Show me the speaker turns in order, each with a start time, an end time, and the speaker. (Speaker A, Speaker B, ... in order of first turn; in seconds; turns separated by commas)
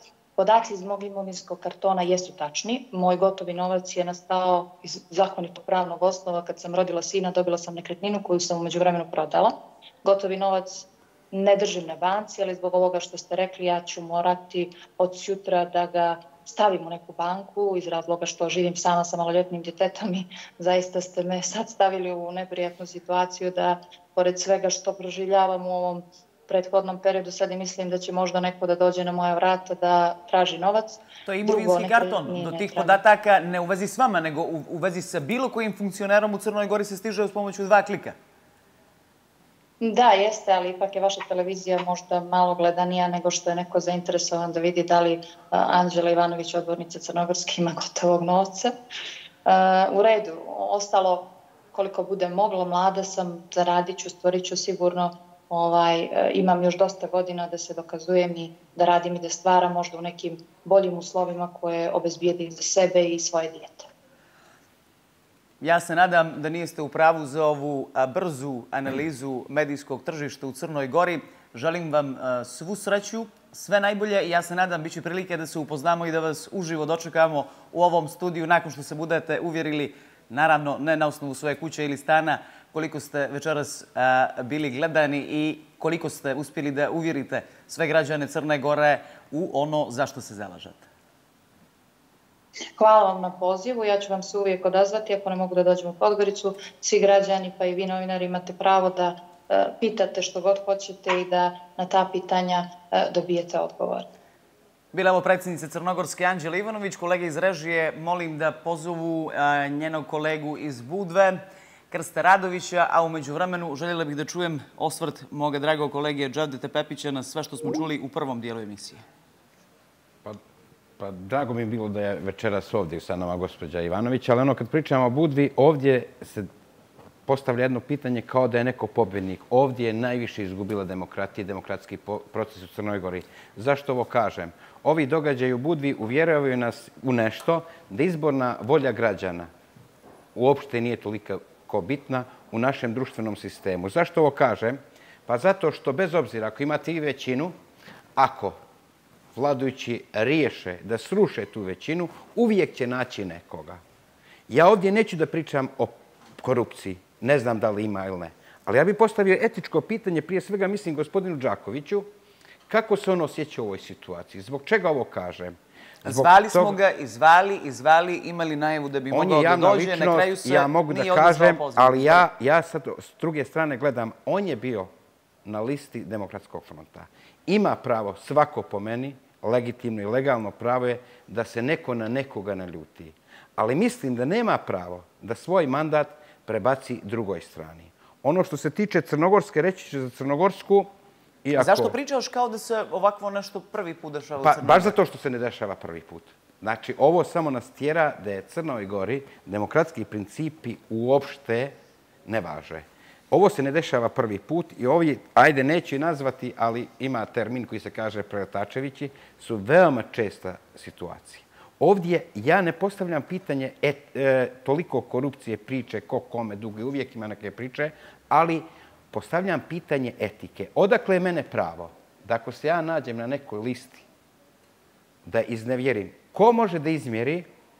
Speaker A: 0.4-33.0, Speaker B: 31.2-38.1, Speaker A: 39.8-48.8, Speaker A: 49.5-63.9, Speaker B: 65.6-90.8, Speaker A: 92.8-104.1, Speaker B: 104.9-119.0, Speaker C: 121.0-126.5, Speaker C: 127.2-139.5, Speaker C: 140.3-147.6, Speaker C: 148.2-148.6, Speaker C: 149.3-153.8, Speaker C: 154.5-162.1, Speaker C: 162.7-166.8, Speaker B: 166.0-172.2, Speaker C: 169.1-174.9, Speaker C: 175.4-190.9, Speaker C: 191.4-191.9, Speaker B: 191.6-194.9, Speaker C: 194.4-201.7, Speaker C: 202.2-224.0, Speaker C: 225.2-227.5